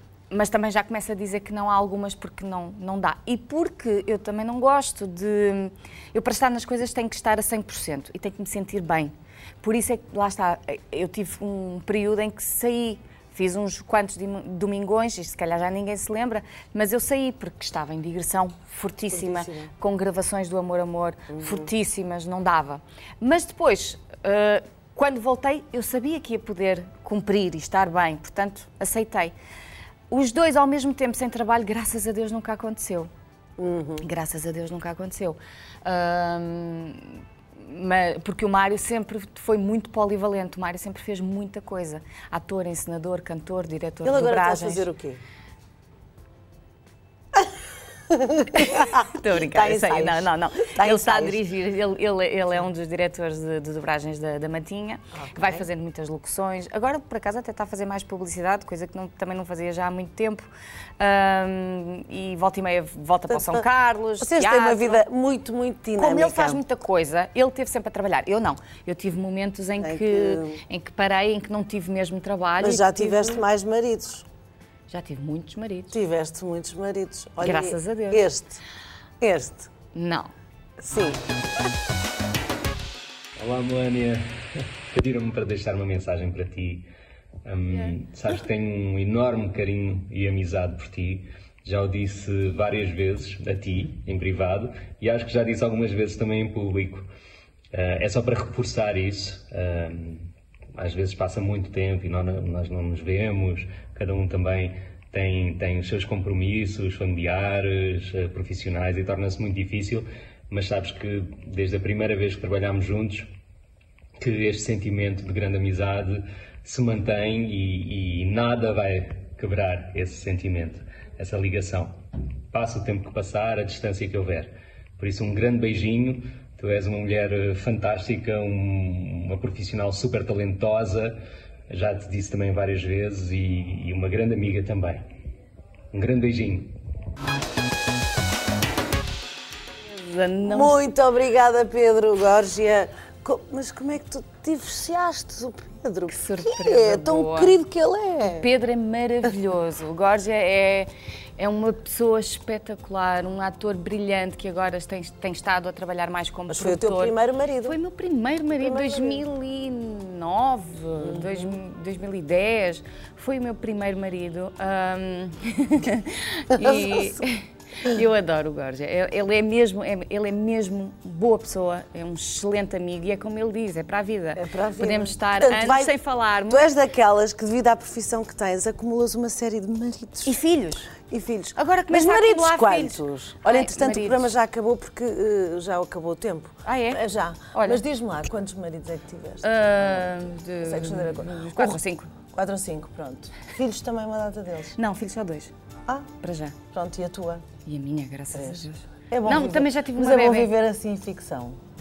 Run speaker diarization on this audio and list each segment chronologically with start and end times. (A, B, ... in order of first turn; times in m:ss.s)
0:00.3-0:29.3 A
0:19.1-0:19.7 B
0:21.3-0:21.7 B
0:30.1-0:33.1 A
0:33.6-0:34.0 B
0:34.0-0:44.8 A
0:44.0-0:45.2 B
0:48.1-0:51.4 B
0:48.6-1:00.5 A
0:55.1-0:55.6 B
1:01.0-1:05.0 A
1:03.3-1:03.6 B
1:04.2-1:06.6 B
1:06.0-1:13.4 A
1:09.8-1:10.6 B
1:12.6-1:14.2 B
1:14.9-1:16.0 A
1:15.9-1:18.6 B
1:17.4-1:18.3 A
1:19.2-1:19.7 B
1:19.9-1:20.3 A
1:20.8-1:21.2 B
1:23.4-1:26.9 C
1:27.4-1:37.1 C
1:37.7-1:53.3 C
1:54.2-2:02.0 C
2:02.5-2:15.0 C
2:15.9-2:16.8 C
2:19.8-2:20.8 A
2:20.4-2:28.5 B
2:26.1-2:27.5 A
2:28.2-2:56.7 A
2:36.5-2:37.8 B
2:38.5-2:39.2 B
2:41.0-2:41.5 B
2:46.5-2:47.2 B
2:54.4-2:55.9 B
2:56.5-3:00.4 B
3:00.2-3:00.9 A
3:01.0-3:10.1 B
3:01.6-3:04.3 A
3:06.6-3:07.0 A
3:07.5-3:07.8 A
3:09.4-3:12.1 A
3:10.6-3:14.8 B
3:14.7-3:15.5 A
3:16.2-3:16.6 A
3:16.6-3:17.4 B
3:17.6-3:20.5 A
3:18.3-3:21.6 B